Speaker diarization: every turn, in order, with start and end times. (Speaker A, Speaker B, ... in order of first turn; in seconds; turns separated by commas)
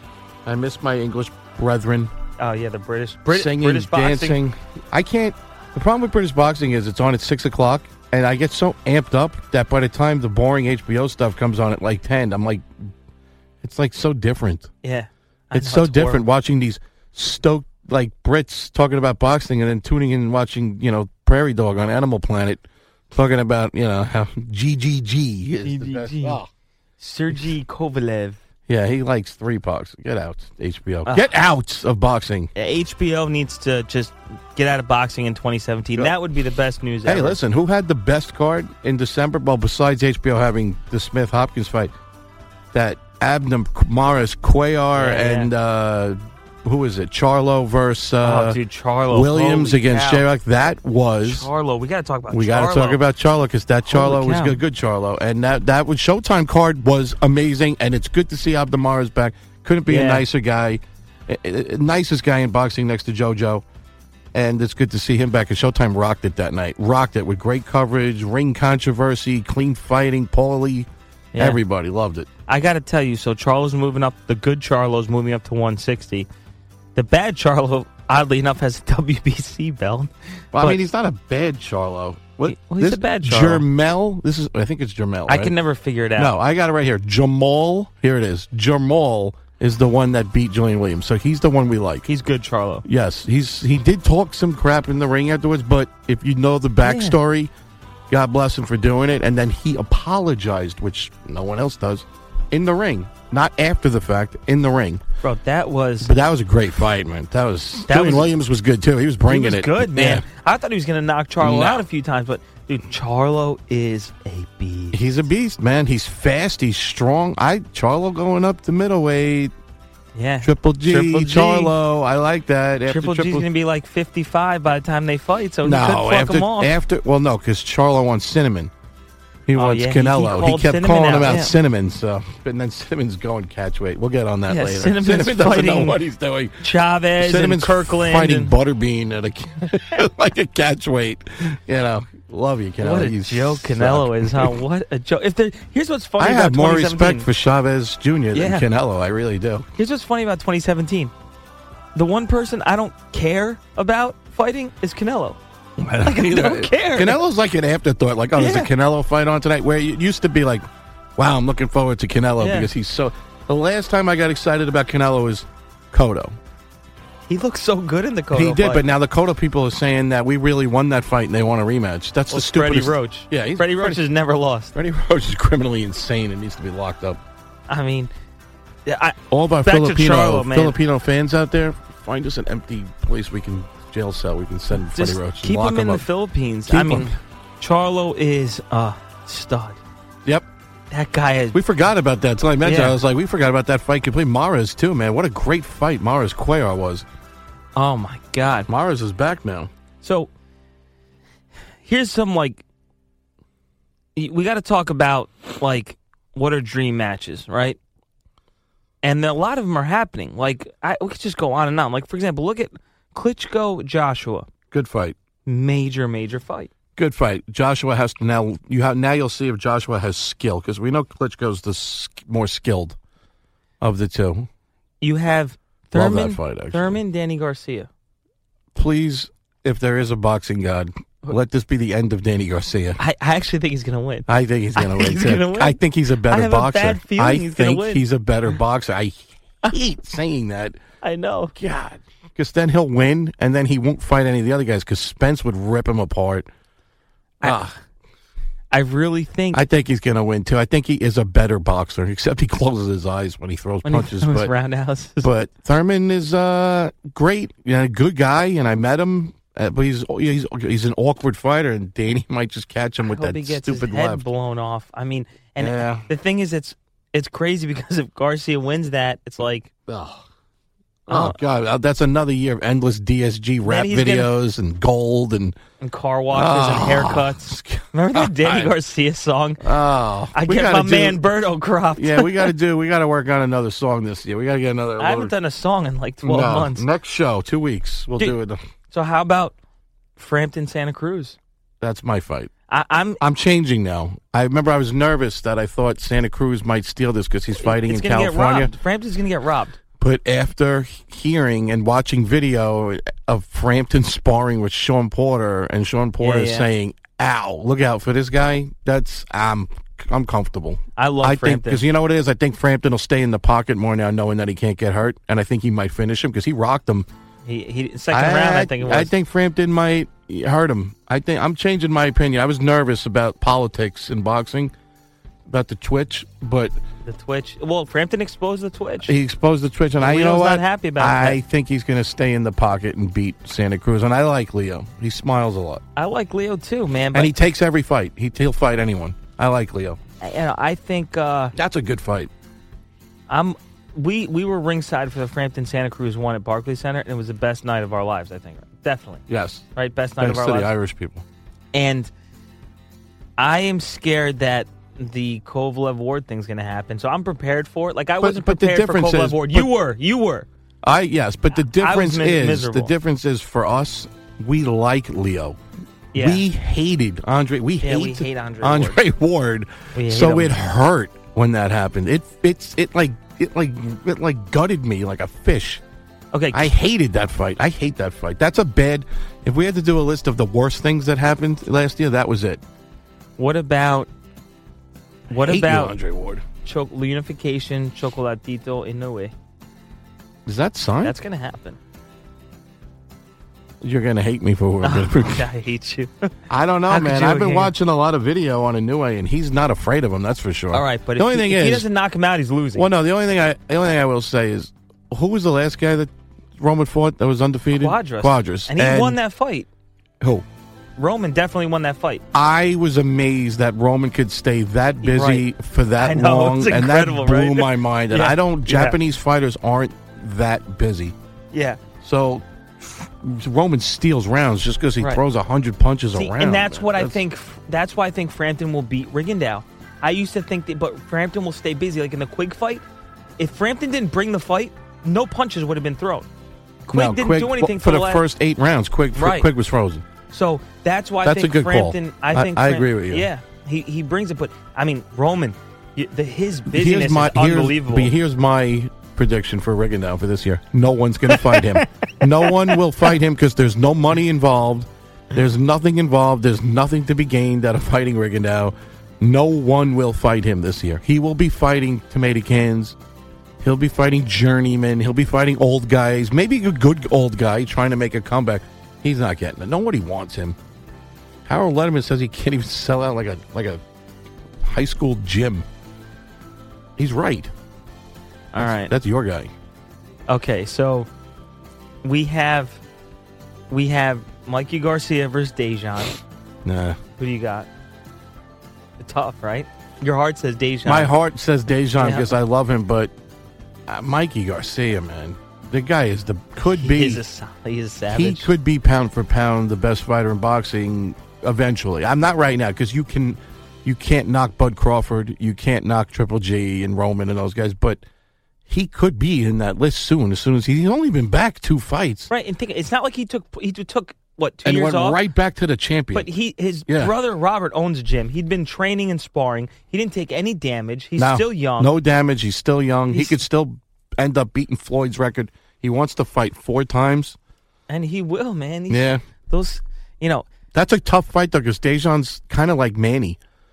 Speaker A: 0.4-2.1, Speaker B: 2.4-4.4, Speaker A: 3.3-12.9, Speaker A: 13.6-14.7, Speaker B: 14.8-16.2, Speaker A: 15.5-26.5, Speaker B: 25.6-26.4, Speaker B: 27.0-28.4, Speaker A: 28.7-32.5, Speaker B: 31.1-31.3, Speaker B: 32.5-37.4, Speaker A: 37.0-41.9, Speaker A: 42.7-51.5, Speaker B: 44.9-45.5, Speaker B: 48.2-50.2, Speaker B: 51.2-53.0, Speaker A: 52.3-63.6, Speaker B: 53.9-54.6, Speaker B: 59.9-60.2, Speaker A: 64.3-72.3, Speaker B: 71.3-71.6, Speaker B: 72.5-76.3, Speaker B: 76.9-80.8, Speaker A: 80.5-85.5, Speaker B: 82.4-83.7, Speaker B: 85.3-86.3, Speaker A: 86.2-92.1, Speaker B: 92.1-92.8, Speaker A: 92.8-97.5, Speaker B: 96.8-97.2, Speaker A: 98.1-105.0, Speaker B: 105.2-106.2, Speaker A: 106.0-110.2, Speaker B: 107.8-108.3, Speaker B: 109.3-115.0, Speaker A: 111.4-111.8, Speaker A: 114.9-119.5, Speaker B: 120.1-121.7, Speaker A: 120.4-123.5, Speaker B: 122.9-126.8, Speaker A: 125.6-128.7, Speaker A: 129.5-136.6, Speaker B: 129.5-131.5, Speaker B: 134.5-136.0, Speaker B: 136.6-138.5, Speaker A: 137.2-144.6, Speaker B: 142.8-147.3, Speaker A: 146.2-149.7, Speaker B: 148.3-148.7, Speaker B: 149.8-151.1, Speaker B: 151.9-155.4, Speaker A: 155.8-166.4, Speaker B: 156.0-157.2, Speaker B: 158.3-158.7, Speaker B: 162.4-162.7, Speaker B: 167.3-168.8, Speaker A: 168.3-174.0, Speaker B: 172.3-174.7, Speaker A: 174.7-177.2, Speaker B: 177.7-178.1, Speaker B: 178.8-180.8, Speaker A: 179.3-186.1, Speaker B: 184.8-189.8, Speaker A: 186.7-187.1, Speaker B: 190.9-191.6, Speaker A: 191.5-197.1, Speaker B: 192.6-193.0, Speaker B: 197.8-198.7, Speaker A: 198.7-199.7, Speaker B: 200.0-200.3, Speaker B: 201.8-202.6, Speaker B: 204.2-207.8, Speaker B: 209.0-214.5, Speaker A: 214.7-215.2, Speaker B: 215.4-216.7, Speaker A: 216.9-223.0, Speaker A: 223.8-224.5, Speaker B: 225.0-227.9, Speaker A: 225.9-227.0, Speaker A: 228.7-233.0, Speaker B: 233.0-238.0, Speaker A: 234.3-240.8, Speaker B: 241.0-241.5, Speaker A: 241.5-246.5, Speaker A: 247.4-247.8, Speaker B: 248.7-249.6, Speaker A: 249.5-254.5, Speaker B: 253.8-255.3, Speaker A: 255.2-264.2, Speaker B: 263.0-269.7, Speaker A: 265.6-266.1, Speaker A: 269.9-270.2, Speaker A: 271.1-275.6, Speaker B: 271.1-271.4, Speaker B: 273.6-274.3, Speaker B: 275.8-279.7, Speaker A: 276.3-278.7, Speaker A: 279.6-281.3, Speaker B: 280.3-282.5, Speaker A: 281.9-285.3, Speaker B: 285.0-286.9, Speaker A: 286.2-288.6, Speaker B: 288.9-289.5, Speaker B: 290.1-291.4, Speaker A: 291.8-292.5, Speaker B: 292.7-293.2, Speaker A: 293.2-298.7, Speaker B: 297.6-299.8, Speaker A: 300.0-317.1, Speaker B: 306.2-306.7, Speaker B: 310.9-311.8, Speaker B: 317.4-319.1, Speaker A: 318.1-324.7, Speaker A: 325.5-326.8, Speaker B: 327.0-329.1, Speaker A: 329.0-335.8, Speaker B: 330.0-331.4, Speaker B: 335.9-337.3, Speaker A: 337.1-340.0, Speaker B: 340.2-341.5, Speaker A: 341.5-342.3, Speaker B: 343.3-349.2, Speaker A: 349.3-349.6, Speaker B: 349.7-350.7, Speaker A: 350.2-351.2, Speaker B: 351.7-352.1, Speaker B: 353.4-360.5, Speaker A: 358.2-359.7, Speaker A: 360.8-365.6, Speaker B: 361.6-362.9, Speaker B: 366.1-366.4, Speaker A: 366.1-375.8, Speaker B: 367.8-369.0, Speaker B: 369.9-370.6, Speaker B: 376.3-376.7, Speaker A: 376.5-382.6, Speaker B: 383.4-384.1, Speaker B: 385.3-385.9, Speaker A: 385.3-386.4, Speaker B: 386.6-389.3, Speaker A: 390.4-391.2, Speaker B: 391.0-391.8, Speaker A: 393.8-395.4, Speaker B: 394.8-396.3, Speaker A: 396.5-401.9, Speaker B: 396.9-397.7, Speaker B: 400.7-402.9, Speaker A: 402.7-409.2, Speaker B: 407.7-409.7, Speaker A: 410.2-410.4, Speaker B: 411.0-412.2, Speaker A: 412.3-421.1, Speaker B: 415.0-415.5, Speaker B: 416.0-419.0, Speaker B: 421.5-421.8, Speaker A: 422.0-427.2, Speaker B: 426.1-432.8, Speaker B: 433.4-436.3, Speaker B: 436.9-438.2, Speaker A: 436.9-440.0, Speaker B: 439.1-439.5, Speaker B: 440.3-448.1, Speaker A: 441.2-443.3, Speaker A: 446.7-462.9, Speaker B: 451.3-451.9, Speaker B: 452.4-452.8, Speaker A: 463.6-470.6, Speaker A: 471.4-473.8, Speaker A: 474.6-475.6, Speaker A: 477.0-477.5, Speaker B: 478.5-478.9, Speaker A: 478.6-479.5, Speaker B: 480.3-481.1, Speaker B: 482.0-482.8, Speaker B: 483.7-486.1, Speaker A: 486.6-487.0, Speaker B: 487.2-487.7, Speaker B: 489.0-491.1, Speaker A: 490.8-493.1, Speaker B: 492.0-492.3, Speaker A: 493.9-497.2, Speaker B: 496.6-498.5, Speaker A: 498.1-508.0, Speaker A: 508.7-512.3, Speaker B: 512.3-515.2, Speaker A: 514.6-516.3, Speaker B: 516.1-521.9, Speaker A: 516.9-517.1, Speaker A: 521.2-527.4, Speaker B: 523.1-523.4, Speaker B: 527.9-530.5, Speaker A: 528.9-529.2, Speaker A: 530.7-533.4